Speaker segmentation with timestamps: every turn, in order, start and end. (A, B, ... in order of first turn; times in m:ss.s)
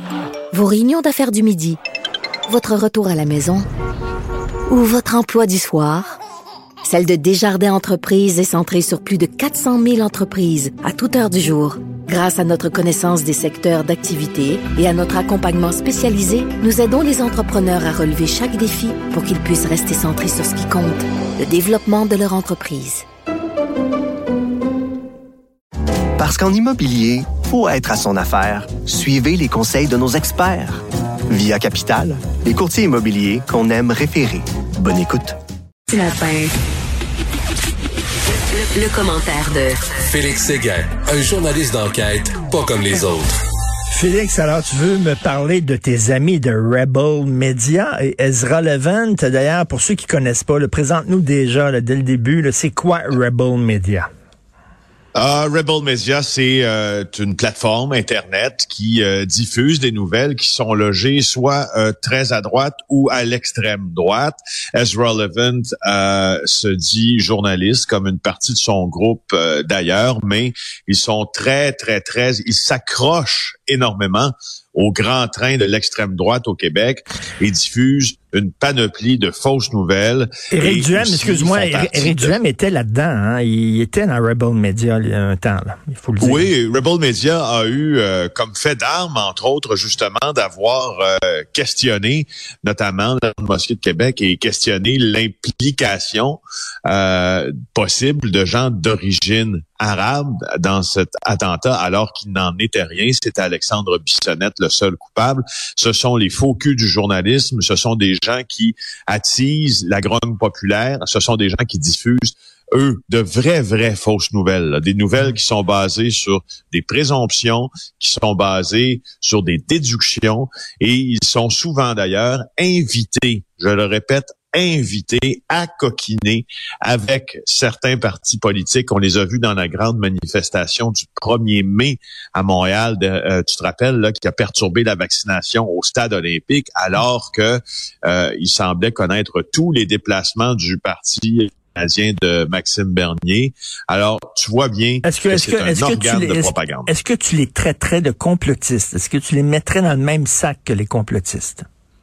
0:00.5-0:01.8 A
0:02.5-0:03.6 A
0:04.7-0:06.2 A
0:06.8-0:23.0 A
0:26.2-0:35.4 B
0:35.9-0:36.5 C
0:38.6-0:39.8 C
0:40.0-0:43.4 D
0:43.9-0:54.1 E
0:55.2-1:22.3 F
1:20.5-1:26.5 E
1:26.2-2:26.9 F
2:25.0-2:31.7 E